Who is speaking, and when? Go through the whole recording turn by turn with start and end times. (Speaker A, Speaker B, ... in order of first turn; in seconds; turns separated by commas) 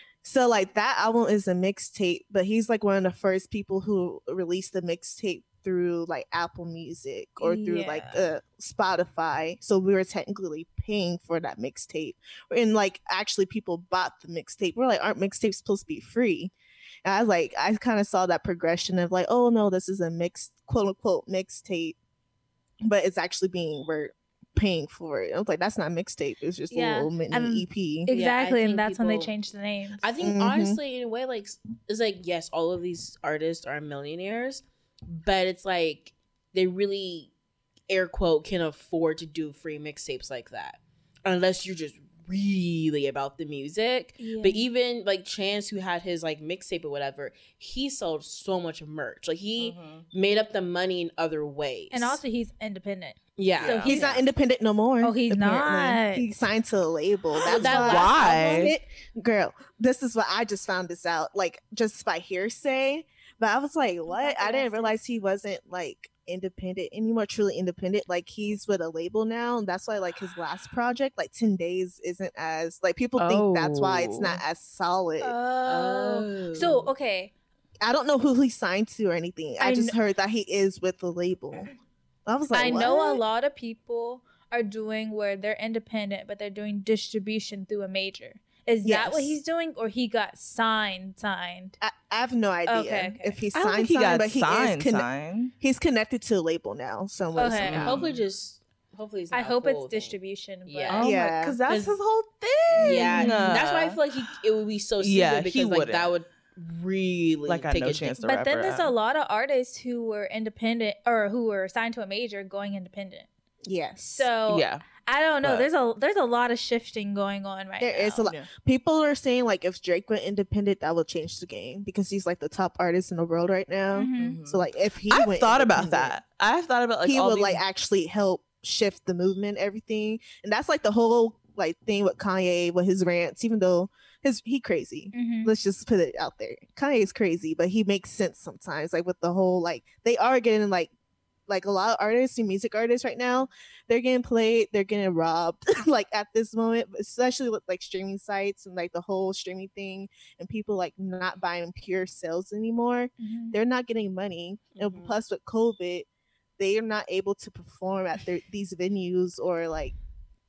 Speaker A: 0.2-16.5, Speaker B: 7.4-8.3, Speaker A: 17.0-21.9, Speaker A: 22.8-28.1, Speaker B: 26.7-30.0, Speaker C: 28.1-29.3, Speaker C: 30.0-37.3, Speaker A: 30.2-30.8, Speaker C: 37.9-52.2, Speaker B: 44.2-44.6, Speaker D: 49.6-50.0, Speaker B: 51.9-54.2, Speaker C: 53.4-54.1, Speaker D: 53.6-53.9, Speaker A: 53.9-75.3, Speaker B: 55.0-56.5, Speaker C: 57.4-58.6, Speaker D: 57.5-58.7, Speaker B: 64.1-65.0, Speaker D: 73.2-74.4, Speaker B: 75.2-77.3, Speaker C: 75.7-76.9, Speaker A: 77.8-81.7, Speaker B: 79.6-79.9, Speaker A: 82.2-83.2, Speaker B: 82.5-91.8, Speaker A: 88.8-89.4, Speaker A: 91.8-95.1, Speaker B: 92.7-93.4, Speaker D: 93.5-95.5, Speaker A: 95.6-98.0, Speaker B: 97.3-97.8, Speaker D: 97.6-98.2, Speaker C: 97.8-100.1, Speaker B: 99.3-101.1, Speaker C: 100.7-101.1, Speaker D: 100.9-104.3, Speaker A: 101.0-101.6, Speaker C: 101.7-102.0, Speaker C: 102.7-108.2, Speaker B: 102.8-103.5, Speaker D: 105.0-106.2, Speaker D: 107.5-108.9, Speaker B: 108.2-113.3, Speaker A: 113.6-114.3, Speaker B: 114.0-118.2, Speaker D: 114.5-114.8, Speaker D: 115.4-115.7, Speaker A: 117.8-126.2, Speaker D: 118.2-118.5, Speaker B: 123.9-124.4, Speaker D: 124.1-127.6, Speaker A: 127.0-140.9, Speaker B: 135.1-135.5, Speaker A: 141.5-156.1, Speaker B: 153.2-153.6, Speaker C: 154.7-155.1, Speaker A: 156.6-159.9